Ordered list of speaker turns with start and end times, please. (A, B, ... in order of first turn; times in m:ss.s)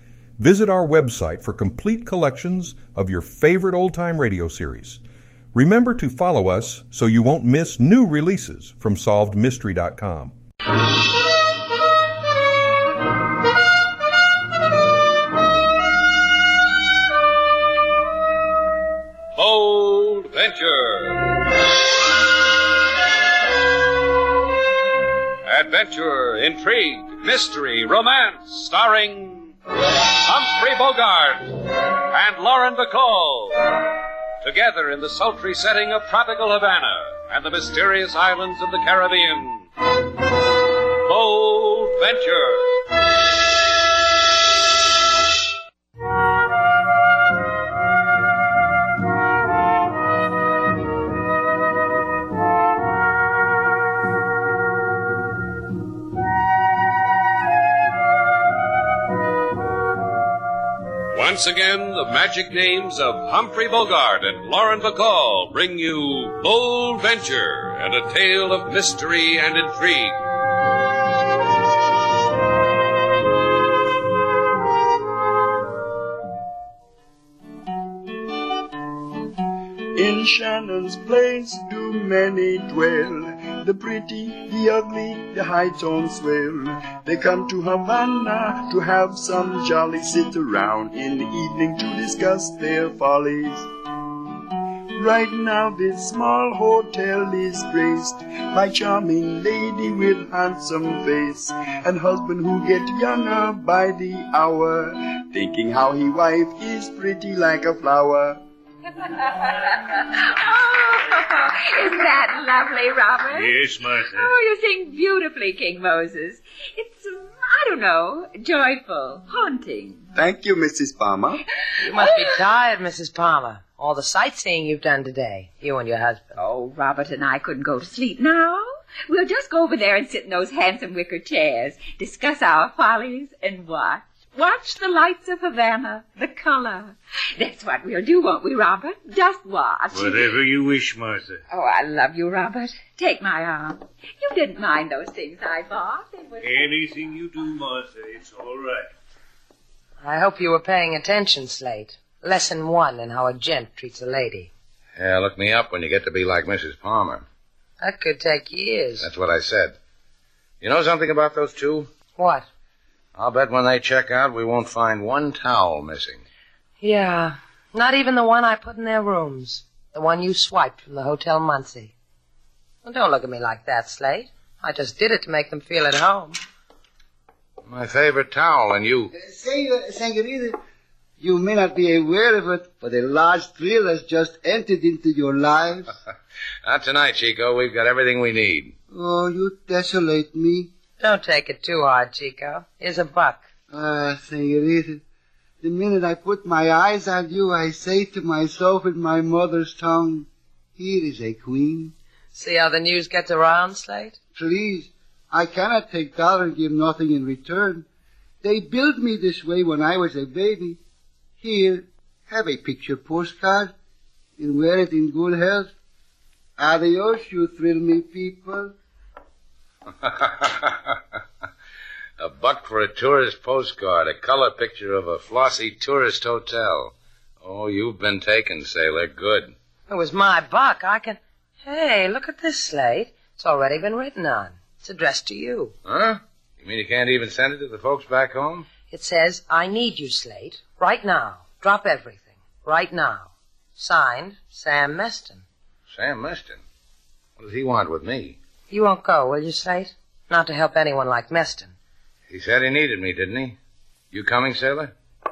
0:00.4-0:05.0 A
0:05.5-0:10.3 A
0:19.4-0:21.3 B
0:25.5-0:29.5 B
0:30.2-0:31.6 B
0:32.1-0:33.7 B
0:34.4-0:39.7 B
0:41.0-0:42.7 B
1:01.1-1:10.2 B
1:20.0-1:33.7 C
1:35.0-1:48.4 C
1:48.9-1:53.6 D
1:53.3-1:54.3 E
1:54.1-2:00.1 D
2:00.2-2:01.4 C
2:01.8-2:06.4 F
2:06.4-2:20.4 D
2:19.9-2:21.4 E
2:21.5-2:26.7 D
2:26.4-2:28.9 E
2:30.0-2:34.5 F
2:35.0-2:37.3 G
2:37.8-2:39.1 F
2:39.0-2:39.8 G
2:40.6-2:41.9 G
2:42.2-2:42.5 F
2:43.2-2:46.2 G
2:46.8-2:51.9 F
2:52.8-2:56.4 F
2:57.7-2:59.1 G
2:59.1-3:00.6 H
3:01.2-3:05.9 H
3:06.6-3:08.8 G
3:08.9-3:10.7 H
3:11.0-3:13.4 F
3:13.7-3:15.0 H
3:15.6-3:21.9 H
3:22.3-3:24.2 F
3:24.4-3:27.9 H
3:28.4-3:30.8 H
3:31.4-3:33.7 H
3:34.4-3:35.7 H
3:36.6-3:38.7 H
3:40.0-3:41.0 G
3:42.2-3:49.6 G
3:49.9-3:55.7 F
3:55.9-3:58.7 G
3:58.9-4:05.4 F
4:05.9-4:06.6 G
4:07.4-4:08.4 G
4:08.7-4:11.7 F
4:12.3-4:13.6 G
4:14.1-4:14.9 G